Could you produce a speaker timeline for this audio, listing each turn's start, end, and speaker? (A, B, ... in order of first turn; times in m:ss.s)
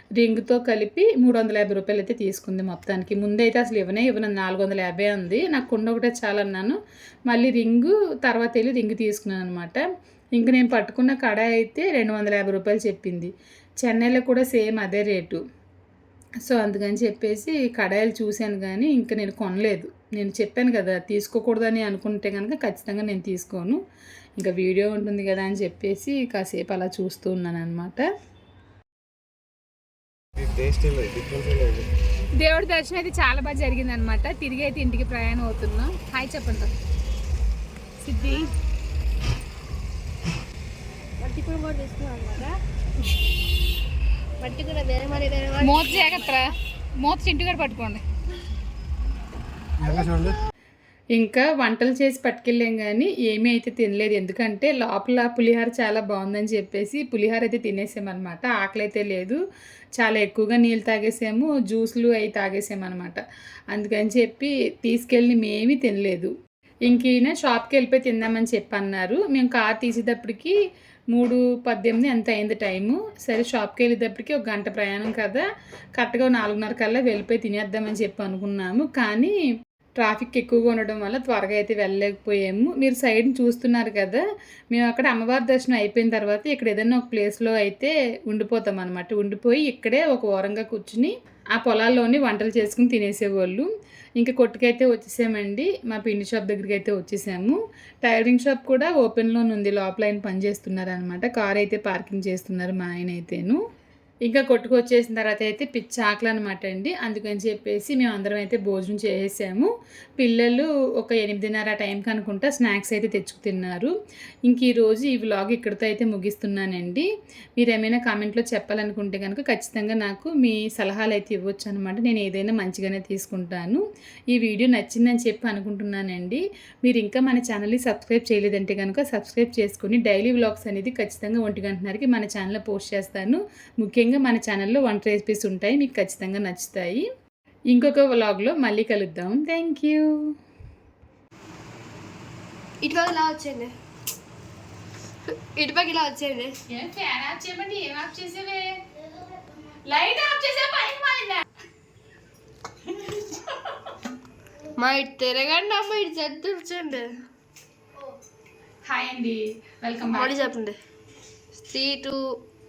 0:00.2-0:09.8 A
0:10.3-0:15.4 A
0:16.4-0:23.8 A
0:24.4-0:28.1 A
0:30.4-0:31.9 B
0:32.4-0:36.7 C
0:38.0-0:38.4 C
0:41.2-0:42.5 D
0:44.4-0:46.4 D
0:45.6-0:46.4 C
0:47.0-0:48.0 C
0:49.8-0:50.3 B
0:51.1-0:59.4 A
1:00.0-1:06.3 A
1:06.9-1:10.5 A
1:11.1-1:15.4 A
1:16.0-1:19.3 A
1:20.0-1:24.2 A
1:24.7-1:43.6 A
1:44.2-1:53.9 A
1:54.5-1:57.1 A
1:57.6-2:17.0 A
2:17.7-2:20.1 A
2:22.8-2:23.7 D
2:25.6-2:26.6 D
2:26.7-2:28.7 C
2:29.9-2:31.4 C
2:34.8-2:37.1 D
2:38.9-2:40.2 C
2:40.1-2:40.8 D
2:41.5-2:42.4 D